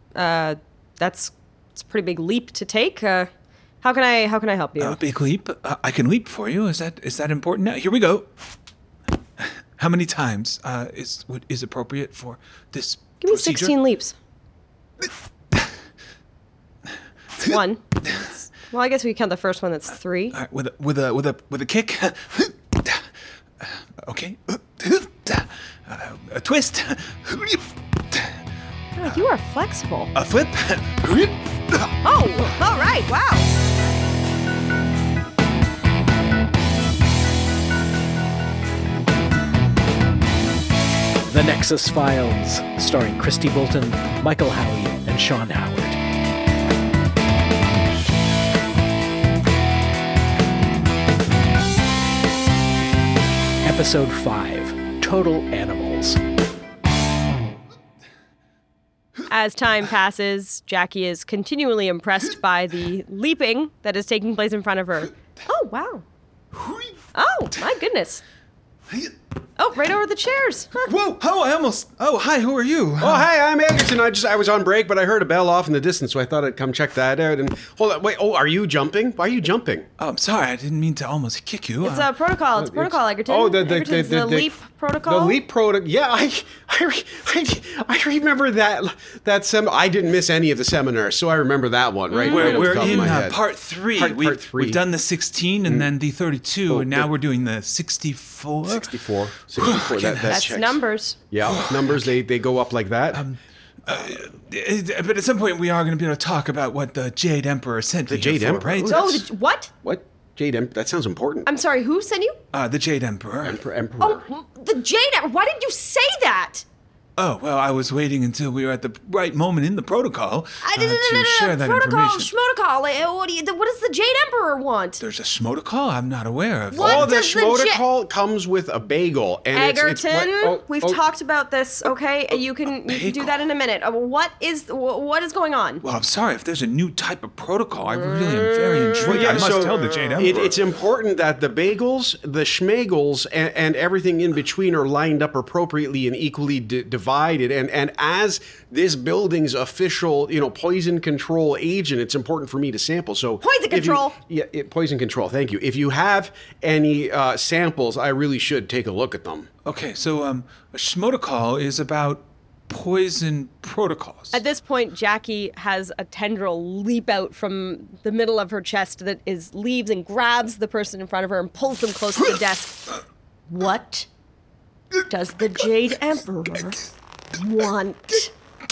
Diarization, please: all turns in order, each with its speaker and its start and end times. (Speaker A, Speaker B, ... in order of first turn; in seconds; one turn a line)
Speaker A: 0.1-3.3
Speaker A: 3.8-5.0
Speaker B: 4.8-8.3
Speaker B: 9.4-13.8
Speaker A: 13.2-14.2
Speaker B: 15.0-15.8
Speaker B: 17.4-18.3
Speaker A: 17.4-20.4
Speaker B: 20.3-23.1
Speaker B: 23.6-28.3
Speaker A: 29.0-30.1
Speaker B: 30.1-31.9
Speaker A: 32.0-33.5
Speaker C: 41.3-46.0
Speaker C: 53.6-56.2
Speaker A: 59.3-66.0
Speaker B: 66.5-66.9
Speaker A: 67.1-68.2
Speaker A: 69.6-70.9
Speaker B: 70.8-73.3
Speaker D: 73.0-79.9
Speaker B: 80.0-82.1
Speaker A: 81.8-85.4
Speaker D: 82.6-94.8
Speaker A: 92.1-93.2
Speaker B: 92.1-98.9
Speaker D: 96.7-97.1
Speaker D: 98.7-100.8
Speaker B: 99.5-100.6
Speaker A: 100.3-101.2
Speaker D: 101.3-103.2
Speaker B: 101.4-102.2
Speaker B: 103.1-109.2
Speaker D: 108.1-109.2
Speaker A: 108.9-109.7
Speaker D: 109.8-111.5
Speaker A: 111.5-112.4
Speaker B: 112.5-113.6
Speaker D: 113.4-114.2
Speaker A: 114.0-116.7
Speaker B: 117.2-122.3
Speaker A: 120.6-125.0
Speaker B: 125.0-127.1
Speaker A: 126.7-127.8
Speaker D: 126.7-131.0
Speaker A: 129.5-135.8
Speaker B: 132.7-133.4
Speaker B: 135.8-140.6
Speaker A: 138.8-139.3
Speaker D: 139.0-159.5
Speaker A: 153.4-154.2
Speaker B: 159.7-164.4
Speaker A: 164.3-174.1
Speaker A: 175.1-176.8
Speaker A: 177.3-178.3